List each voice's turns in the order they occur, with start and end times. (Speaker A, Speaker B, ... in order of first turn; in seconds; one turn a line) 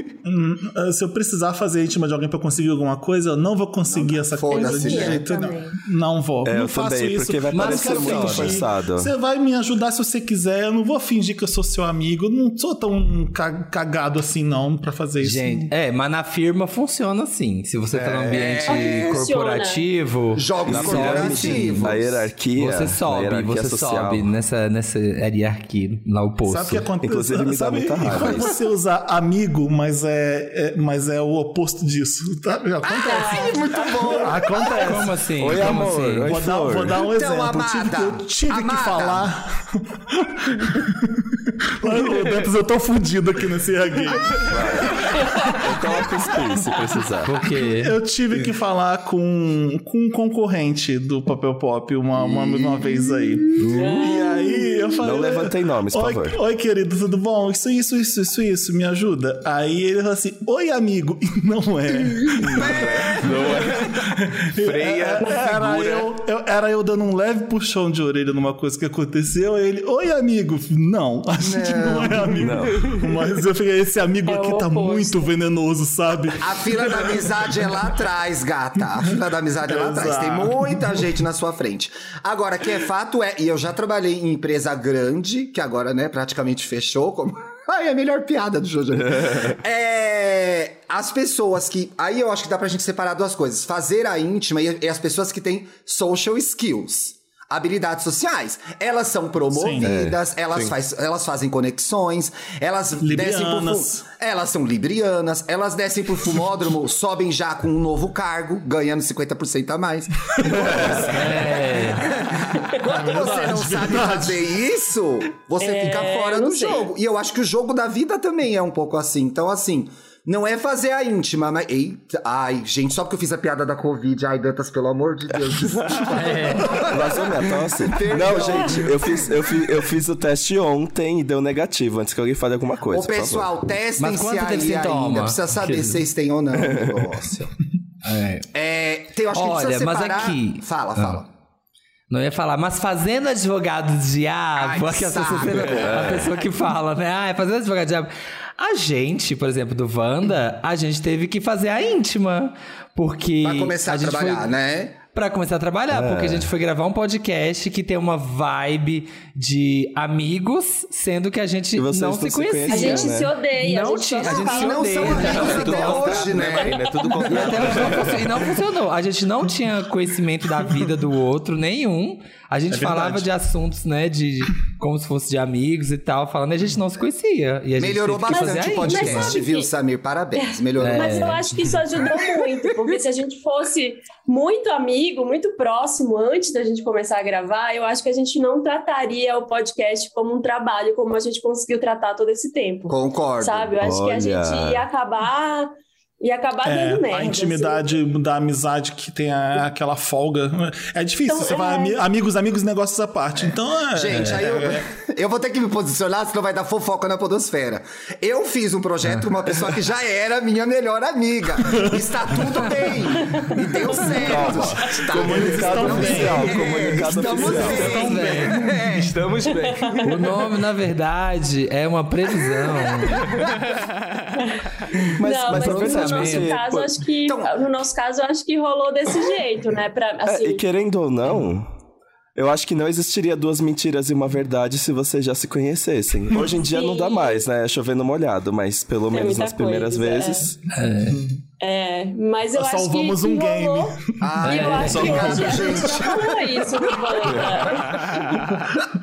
Speaker A: 0.2-15.7
Speaker B: 3.9-5.4
Speaker C: 4.5-5.8
Speaker D: 6.5-9.1
Speaker E: 7.5-8.6
Speaker E: 15.2-22.0
Speaker F: 18.0-18.6
Speaker B: 18.3-19.2
Speaker C: 18.6-19.8
Speaker B: 20.4-22.3
Speaker D: 20.6-24.3
Speaker E: 22.6-26.9
Speaker A: 26.5-46.0
Speaker D: 27.0-28.5
Speaker B: 32.8-35.0
Speaker C: 33.1-33.8
Speaker E: 34.6-36.3
Speaker D: 35.4-37.0
Speaker B: 37.0-39.3
Speaker F: 44.2-44.8
Speaker D: 44.5-47.3
Speaker C: 45.2-45.7
Speaker E: 47.2-47.9
Speaker A: 47.6-77.3
Speaker D: 52.2-53.0
Speaker D: 53.6-56.4
Speaker C: 53.6-54.2
Speaker D: 62.4-63.9
Speaker B: 62.5-63.8
Speaker F: 64.6-66.1
Speaker B: 71.4-72.5
Speaker D: 72.4-72.9
Speaker C: 74.3-75.3
Speaker B: 76.4-129.3
Speaker A: 79.7-81.1
Speaker A: 99.5-100.0
Speaker D: 99.8-100.2
Speaker A: 103.0-104.0
Speaker A: 110.3-111.7
Speaker D: 110.6-110.8
Speaker E: 110.9-112.1
Speaker A: 112.8-114.4
Speaker C: 115.6-116.9
Speaker E: 126.1-126.8
Speaker D: 126.8-133.5
Speaker B: 132.9-137.4
Speaker E: 134.0-136.0
Speaker D: 136.6-137.1
Speaker E: 138.0-138.5
Speaker B: 138.5-141.3
Speaker E: 139.3-141.2
Speaker E: 142.1-154.5
Speaker B: 144.6-146.2
Speaker D: 145.8-146.3
Speaker B: 153.4-155.0
Speaker E: 155.1-179.4
Speaker D: 155.9-156.5
Speaker D: 161.8-163.3
Speaker C: 162.7-165.6
Speaker B: 164.2-168.0
Speaker F: 165.1-168.3
Speaker A: 172.7-173.3
Speaker B: 177.8-181.4
Speaker C: 178.3-179.7
Speaker C: 180.3-198.0
Speaker E: 180.8-181.8
Speaker B: 192.9-193.8
Speaker D: 193.8-194.9
Speaker A: 196.6-204.8
Speaker C: 201.3-202.0
Speaker B: 203.9-219.1
Speaker C: 213.1-215.1
Speaker D: 214.0-218.0
Speaker A: 215.1-219.1
Speaker E: 217.6-218.6
Speaker F: 218.9-220.3
Speaker C: 219.5-220.1
Speaker E: 220.0-223.3
Speaker F: 223.1-224.4
Speaker C: 224.4-224.7
Speaker D: 225.2-226.9
Speaker C: 225.2-230.6
Speaker E: 225.5-226.5
Speaker B: 227.3-227.6
Speaker D: 230.2-231.7
Speaker D: 232.4-240.6
Speaker C: 236.4-237.5
Speaker C: 239.1-240.5
Speaker E: 240.7-241.3
Speaker A: 241.1-241.4
Speaker C: 241.6-248.4
Speaker A: 242.6-246.1
Speaker B: 244.2-247.4
Speaker E: 244.4-245.3
Speaker D: 244.9-245.5